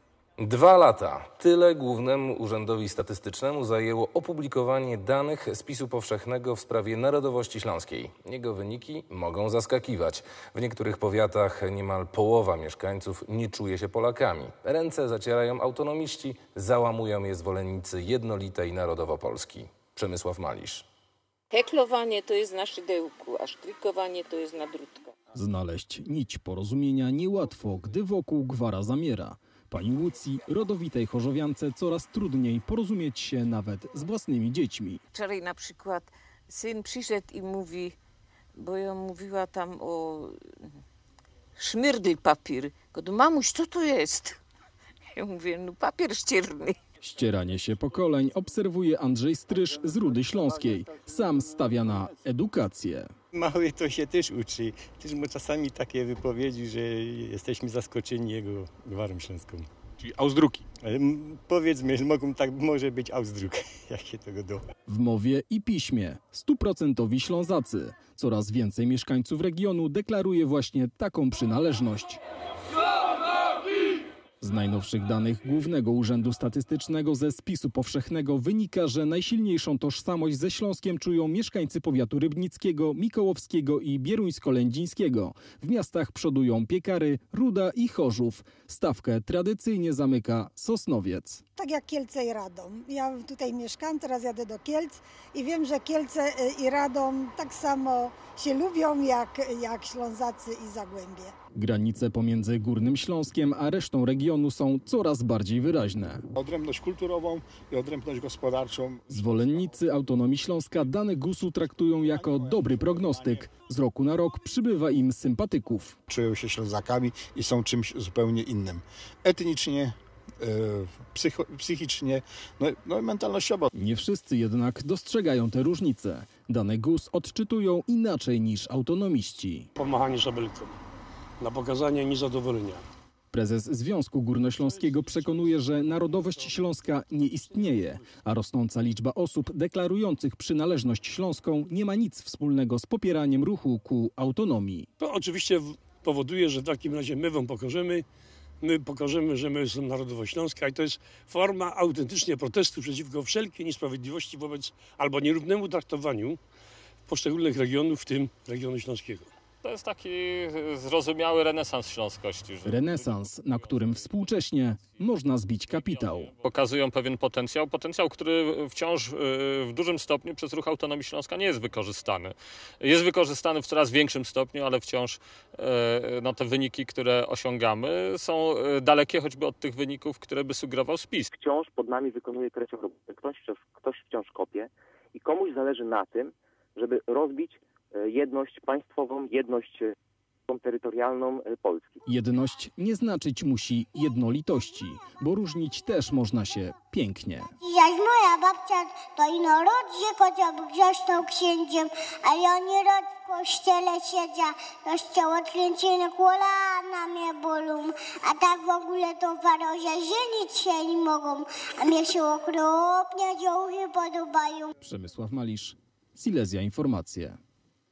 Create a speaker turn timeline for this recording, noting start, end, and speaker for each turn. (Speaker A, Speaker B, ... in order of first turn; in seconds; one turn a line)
Speaker A: 0.4-20.8
Speaker B: 21.5-25.1
Speaker C: 25.3-35.0
Speaker B: 35.1-38.0
Speaker B: 38.5-40.4
Speaker B: 41.6-44.4
Speaker B: 45.1-46.8
Speaker C: 47.0-53.1
Speaker D: 53.3-59.7
Speaker D: 60.8-64.6
Speaker C: 64.9-72.2
Speaker C: 74.4-91.4
Speaker E: 91.5-101.3
Speaker C: 101.5-106.2
Speaker F: 106.4-109.6
Speaker C: 109.1-116.0
Speaker F: 112.0-113.4
Speaker F: 116.1-123.7
Speaker C: 123.7-129.7
Speaker G: 129.8-130.7
Speaker G: 131.4-132.8
Speaker C: 133.3-144.9
Speaker G: 145.0-148.0
Speaker G: 148.6-156.4
Speaker G: 157.1-159.3
Speaker H: 159.6-163.3
Speaker C: 162.6-166.3
Speaker H: 165.7-181.3
Speaker I: 181.4-189.9
Speaker I: 190.5-191.9
Speaker C: 192.1-197.5
Speaker J: 197.6-214.7
Speaker C: 214.8-217.4